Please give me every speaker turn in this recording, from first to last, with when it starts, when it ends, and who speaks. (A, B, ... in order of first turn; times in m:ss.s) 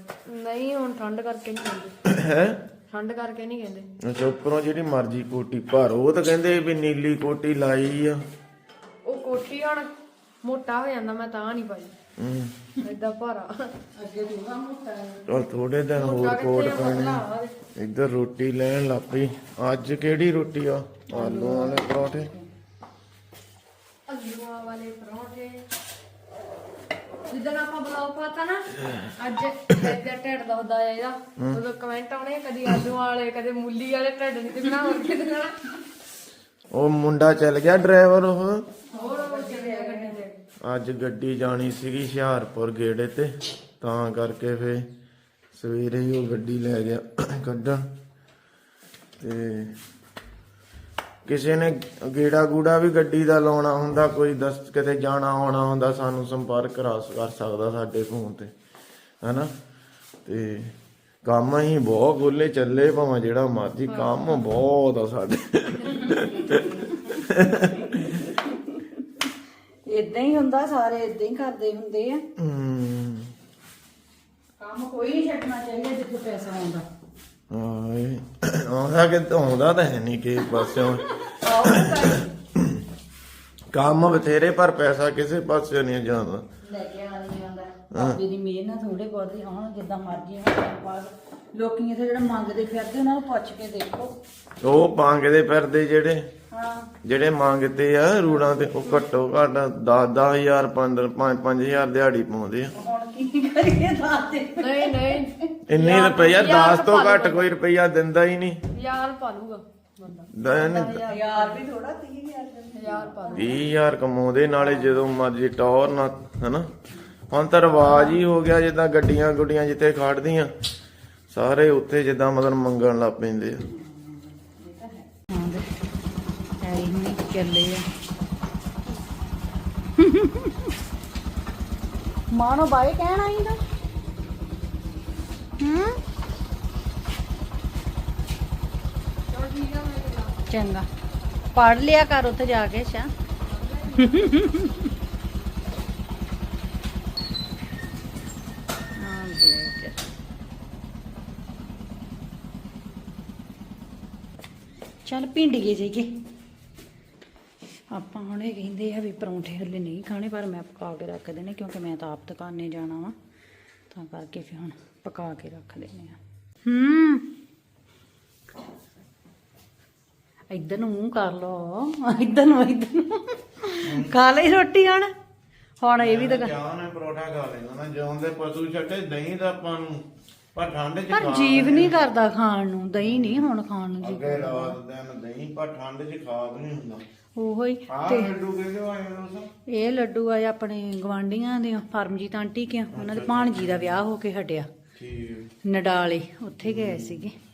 0:00.3-0:01.9 A
0:02.0-0:02.6 B
0:02.9-0:03.9 A
0:04.0-0:08.2 B
0:09.0-0:09.9 A
0:10.4-0:11.9 A
0:12.2-0:12.6 B
0:12.8-0:13.7 A
0:14.0-0:15.4 C
0:15.3-0:17.2 B
0:16.0-0:17.5 A
0:17.8-0:22.3 B
0:21.1-0:22.5 C
0:24.1-0:25.7 A
0:27.3-0:35.7 A
0:28.8-0:29.1 B
0:31.4-0:31.6 B
0:36.7-0:38.7 B
0:38.9-0:40.2 C
0:38.9-0:40.4 A
0:40.6-0:44.9 B
0:45.5-0:47.9 B
0:49.2-0:49.8 B
0:51.2-0:58.5 B
0:59.2-0:59.5 B
1:00.2-1:08.3 B
1:03.9-1:04.4 A
1:05.8-1:06.6 A
1:09.9-1:12.2 C
1:12.4-1:13.3 B
1:14.6-1:16.8 C
1:17.5-1:22.8 B
1:20.4-1:22.3 C
1:23.7-1:26.5 B
1:26.6-1:34.2 C
1:27.9-1:28.2 B
1:34.6-1:36.3 B
1:36.5-1:36.9 C
1:37.0-1:42.7 B
1:42.7-1:45.3 C
1:44.6-1:47.5 A
1:45.7-1:48.6 B
1:48.7-1:51.6 A
1:50.3-1:51.0 B
1:51.0-1:53.6 C
1:52.8-1:53.6 A
1:53.3-1:56.7 B
1:57.3-2:00.5 B
2:01.3-2:03.7 B
2:03.7-2:05.7 C
2:06.6-2:07.9 C
2:10.0-2:10.7 C
2:12.3-2:13.6 C
2:15.6-2:16.0 C
2:19.3-2:20.4 A
2:20.5-2:20.9 C
2:21.5-2:23.1 C
2:23.4-2:24.5 A
2:24.0-2:24.9 C
2:29.0-2:30.0 C
2:35.0-2:36.2 C
2:37.9-2:43.2 C
2:43.9-2:47.2 C
2:50.5-2:55.1 C
2:53.8-2:54.1 B
2:55.8-2:56.6 C
2:56.0-3:02.1 B
3:01.1-3:04.8 C
3:03.0-3:03.5 B
3:04.0-3:07.0 B
3:07.4-3:08.3 C
3:07.9-3:09.5 B
3:09.7-3:14.7 C
3:12.9-3:14.0 B
3:15.0-3:15.5 B
3:15.6-3:17.4 C
3:16.6-3:17.3 B